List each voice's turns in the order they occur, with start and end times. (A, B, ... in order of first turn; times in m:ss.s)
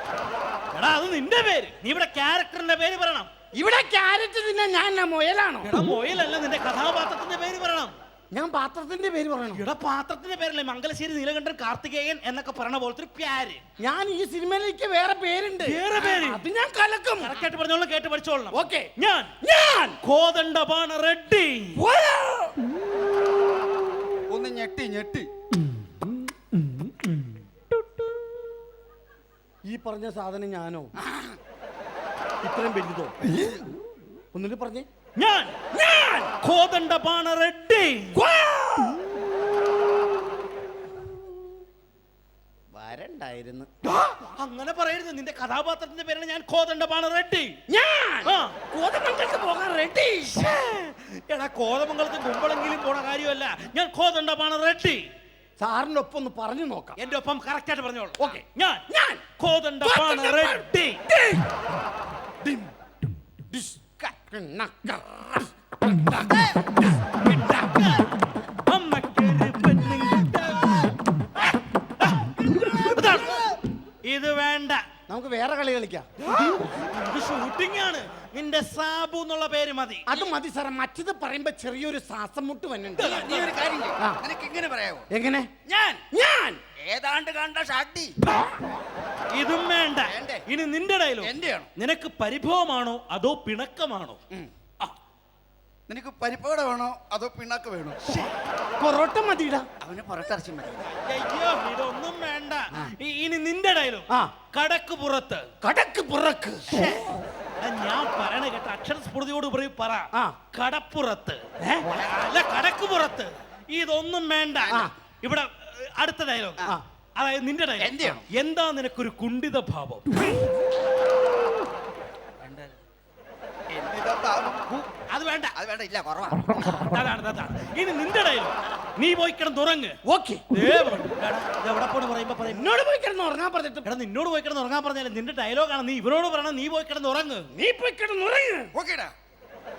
0:00.7-0:03.3 A
0:03.5-0:05.7 B
0:05.6-0:08.0 A
0:08.3-0:09.6 B
0:09.5-0:13.6 A
0:13.8-0:17.4 B
0:15.6-0:16.4 A
0:17.2-0:19.4 A
0:18.5-0:18.9 B
0:19.4-0:20.0 B
0:20.0-0:21.8 A
0:21.8-0:22.5 B
0:24.3-0:25.3 C
0:26.0-0:27.4 A
0:29.6-0:30.9 B
0:31.0-0:31.3 C
0:32.4-0:33.2 B
0:33.3-0:33.6 C
0:34.3-0:34.9 B
0:35.2-0:35.6 A
0:35.7-0:36.4 B
0:36.4-0:38.2 A
0:38.1-0:39.2 B
0:42.7-0:43.7 B
0:44.0-0:47.6 A
0:47.7-0:50.5 B
0:48.2-0:48.5 A
0:50.3-0:55.0 A
0:55.6-0:57.0 B
0:57.0-0:58.8 A
0:58.2-0:59.2 B
0:59.4-1:01.0 A
0:59.8-1:01.4 B
1:02.4-1:02.7 B
1:03.5-1:07.6 B
1:07.2-1:08.1 A
1:08.7-1:14.8 A
1:15.1-1:16.1 B
1:16.5-1:20.1 A
1:20.1-1:23.2 B
1:23.0-1:25.1 C
1:23.0-1:23.6 A
1:25.1-1:26.6 B
1:25.6-1:26.0 C
1:26.8-1:28.1 C
1:29.3-1:34.2 A
1:30.0-1:30.4 C
1:31.2-1:31.7 C
1:35.9-1:38.0 C
1:38.8-1:39.7 B
1:39.8-1:40.9 C
1:40.8-1:45.5 A
1:45.6-1:46.8 B
1:46.7-1:56.6 A
1:51.6-1:52.0 B
1:57.2-2:00.3 A
1:57.8-1:58.2 C
2:03.7-2:04.6 C
2:04.7-2:05.6 A
2:05.6-2:06.6 C
2:06.8-2:10.0 A
2:10.0-2:10.5 B
2:10.5-2:12.7 A
2:12.4-2:13.9 B
2:13.8-2:17.5 A
2:17.5-2:18.7 B
2:18.7-2:19.1 C